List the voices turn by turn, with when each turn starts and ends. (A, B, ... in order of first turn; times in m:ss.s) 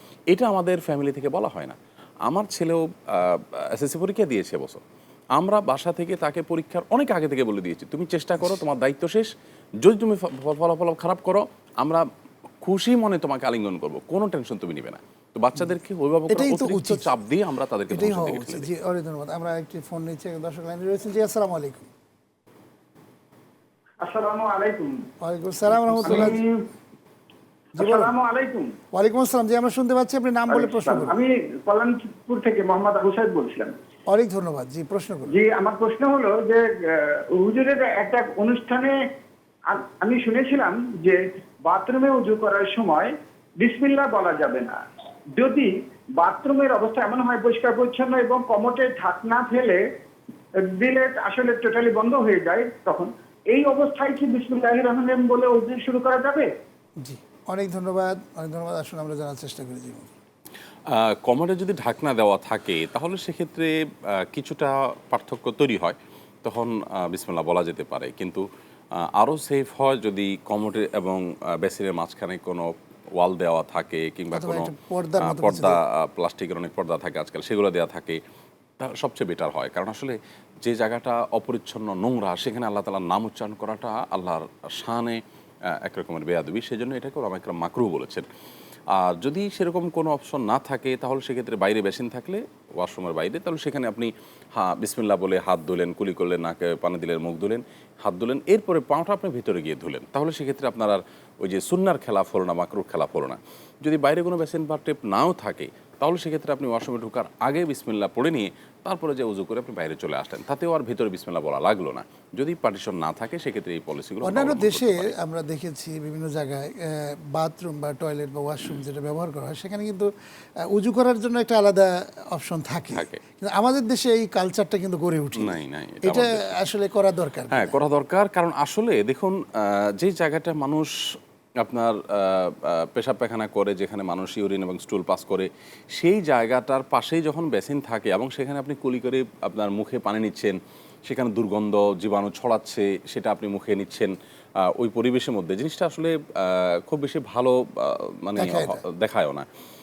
0:00.3-0:04.8 A
0:05.4-0:12.0 A
0:12.6-0:18.7 A
0:16.3-0:17.1 B
0:17.9-0:21.9 B
0:24.0-0:24.9 C
0:25.2-0:26.4 B
0:25.7-0:26.4 A
0:26.0-0:26.6 C
0:27.8-0:28.1 B
0:27.8-0:28.7 C
0:28.9-0:31.2 B
0:30.5-0:33.7 C
0:34.1-0:35.3 B
0:35.3-0:38.9 C
0:39.7-0:44.8 C
0:45.4-0:49.8 C
0:50.6-0:56.5 C
0:57.0-1:00.1 B
1:00.9-1:08.4 A
1:09.0-1:18.2 A
1:14.3-1:15.8 B
1:18.8-1:28.3 A
1:28.9-1:55.1 A
1:54.2-2:00.1 B
2:00.7-2:07.8 B
2:05.4-2:06.5 A
2:07.5-2:10.9 A
2:11.6-2:29.5 A
2:28.4-2:28.8 B